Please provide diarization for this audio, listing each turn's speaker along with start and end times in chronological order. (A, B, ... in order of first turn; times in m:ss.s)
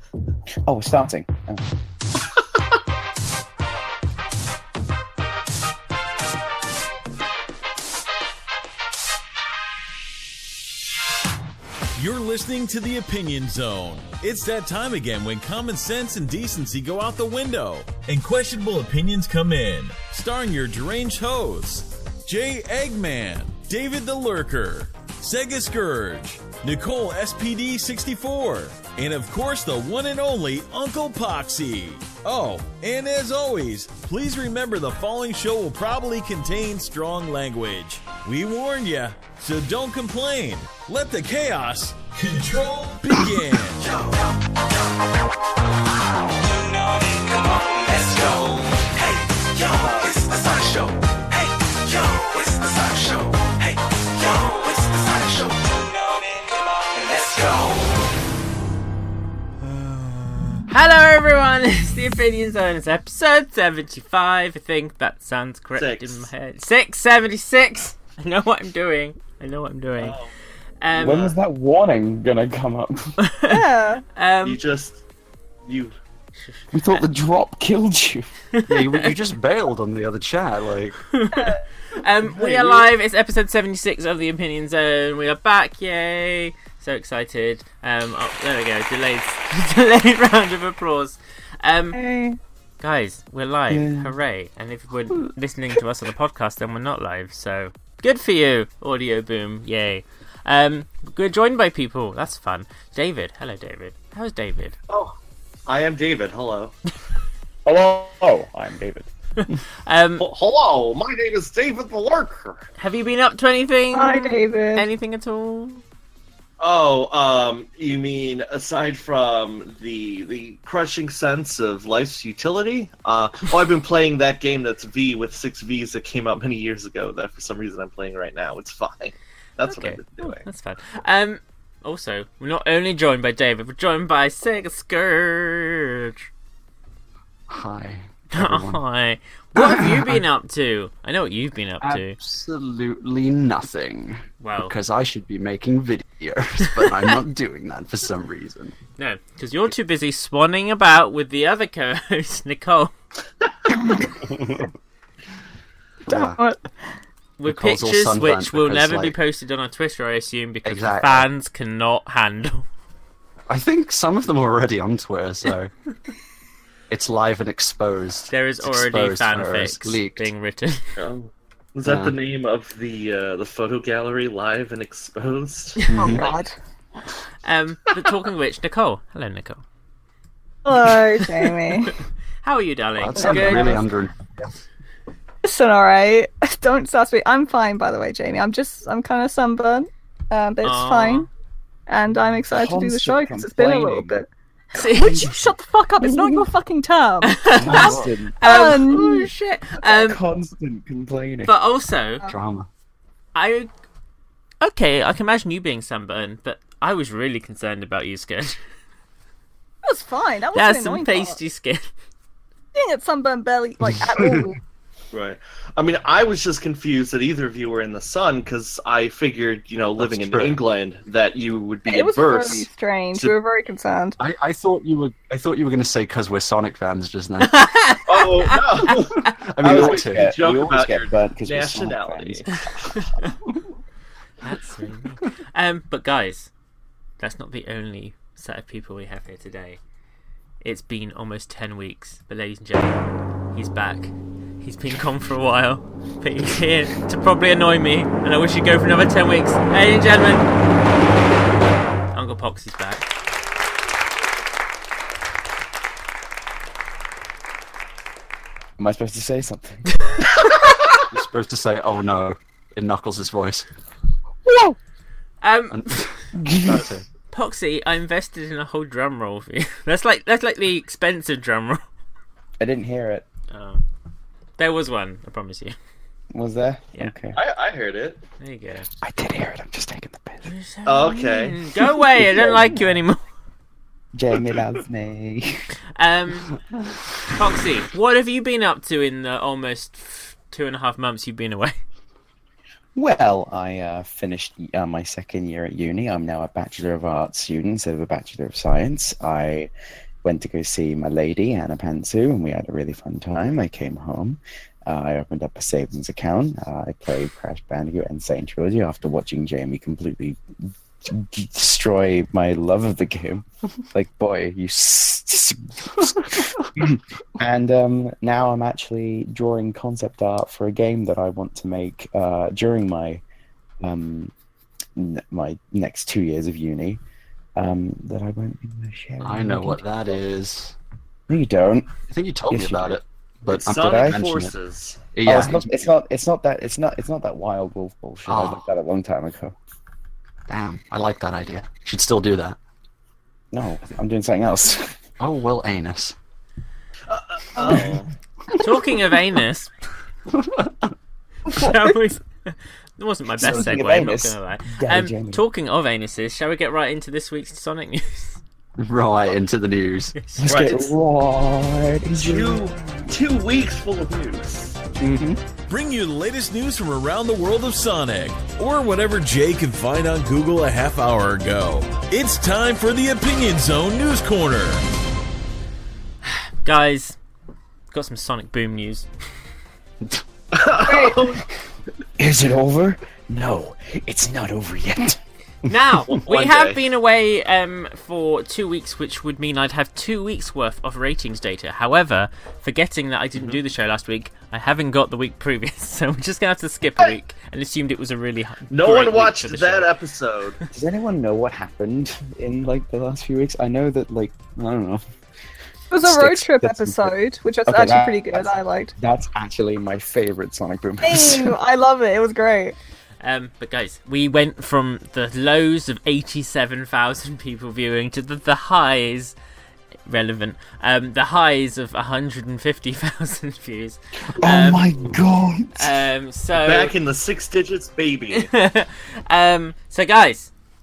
0:00.6-0:01.7 A
0:12.0-0:43.9 B
0:46.2-0:57.9 C
1:00.7-1:10.2 D
1:05.8-1:06.3 E
1:10.0-1:10.3 E
1:10.8-1:11.3 D
1:11.0-1:13.2 A
1:11.0-1:11.3 E
1:13.2-1:13.6 D
1:13.5-1:14.0 F
1:14.2-1:14.6 D
1:14.4-1:15.0 E
1:15.7-1:15.9 E
1:16.4-1:17.0 D
1:16.7-1:18.3 A
1:18.6-1:19.1 D
1:18.7-1:21.0 C
1:21.1-1:32.0 D
1:31.9-1:32.4 F
1:32.8-1:44.8 D
1:33.7-1:34.2 A
1:44.9-1:45.2 E
1:45.7-1:46.8 E
1:47.6-1:49.1 A
1:49.4-1:50.3 D
1:50.2-1:52.7 E
1:52.8-1:55.8 D
1:53.9-1:54.9 F
1:56.6-2:10.4 E
2:09.6-2:16.3 D
2:17.5-2:18.8 C
2:18.3-2:22.2 D
2:19.6-2:20.2 C
2:21.8-2:28.8 C
2:24.4-2:24.7 D
2:26.7-2:27.2 D
2:29.0-2:32.9 D
2:34.2-2:34.7 C
2:36.1-2:36.4 C
2:36.1-2:36.7 F
2:37.4-2:42.7 D
2:37.4-2:39.2 C
2:40.6-2:41.3 C
2:43.5-2:45.7 C
2:46.9-2:50.3 C
2:48.3-2:50.9 D
2:51.0-2:55.8 E
2:51.8-2:52.2 C
2:55.8-2:56.1 D
2:55.9-2:56.3 C
2:56.0-2:56.4 A
2:56.0-2:56.4 F
2:57.4-2:59.6 D
3:00.6-3:02.0 F
3:00.9-3:03.8 D
3:03.0-3:04.2 C
3:03.2-3:03.8 F
3:05.4-3:11.3 F
3:10.6-3:11.3 D
3:11.9-3:14.3 F
3:12.5-3:14.2 A
3:14.8-3:15.2 D
3:14.8-3:19.3 F
3:15.0-3:15.4 A
3:16.0-3:16.5 A
3:17.2-3:20.2 D
3:17.6-3:18.4 A
3:17.6-3:18.0 C
3:19.8-3:21.6 A
3:21.5-3:22.2 D
3:22.3-3:22.7 C
3:23.4-3:23.7 D
3:24.6-3:28.6 D
3:29.8-3:31.4 F
3:30.5-3:31.9 D
3:32.8-3:34.6 F
3:35.1-3:43.4 E
3:40.0-3:40.6 C
3:41.9-3:44.2 F
3:44.2-3:47.6 C
3:47.4-3:49.3 D
3:48.1-3:53.0 E
3:48.9-3:50.3 C
3:49.6-3:52.5 A
3:52.9-3:53.3 D
3:54.4-3:56.5 D
3:57.2-3:59.8 D
4:00.6-4:10.5 D
4:12.1-4:13.1 D
4:18.8-4:20.0 A
4:21.1-4:23.7 C
4:24.4-4:24.8 A
4:25.4-4:25.8 D
4:25.7-4:27.0 C
4:26.3-4:26.9 A
4:27.3-4:31.8 D
4:32.6-4:33.3 A
4:33.5-4:33.8 D
4:34.6-4:35.8 D
4:36.3-4:37.4 A
4:37.3-4:38.2 E
4:38.4-4:38.9 D
4:39.0-4:40.5 A
4:40.5-4:43.2 D
4:40.9-4:41.6 E
4:42.0-4:43.0 A
4:44.1-4:45.6 A
4:46.0-4:46.6 D
4:47.3-4:51.8 D
4:53.0-4:59.7 A
5:00.2-5:23.2 A
5:23.8-5:24.3 A
5:25.0-5:27.0 A
5:27.6-5:29.9 A
5:29.2-5:30.8 C
5:31.3-5:32.0 A
5:32.1-5:34.5 C
5:32.5-5:33.0 A
5:33.5-5:35.0 E
5:33.7-5:34.2 A
5:35.1-5:35.6 C
5:35.2-5:39.6 A
5:38.3-5:38.6 C
5:40.5-5:42.6 C
5:43.5-5:45.0 A
5:45.2-5:46.2 C
5:47.1-5:48.1 E
5:47.6-5:48.0 A
5:48.6-5:49.7 D
5:50.3-5:50.9 C
5:51.5-5:58.4 D
5:51.5-5:51.8 A
5:53.4-5:55.4 A
5:58.8-6:00.2 C
6:00.2-6:00.6 D
6:00.4-6:03.2 A
6:00.4-6:00.9 E
6:02.1-6:04.8 E
6:05.0-6:05.4 C
6:05.7-6:14.8 B
6:16.2-6:17.2 D
6:17.9-6:19.1 D
6:20.5-6:21.4 E
6:20.8-6:21.5 A
6:22.2-6:25.2 A
6:25.7-6:39.9 D
6:26.2-6:26.8 E
6:38.7-6:40.6 E
6:40.7-6:45.0 A
6:45.9-6:48.9 F
6:46.0-6:47.2 A
6:47.7-6:51.6 A
6:51.0-6:52.8 F
6:53.2-6:59.4 D
7:00.1-7:05.1 D
7:04.4-7:06.0 A
7:05.8-7:06.9 D
7:06.5-7:08.5 E
7:08.3-7:10.5 D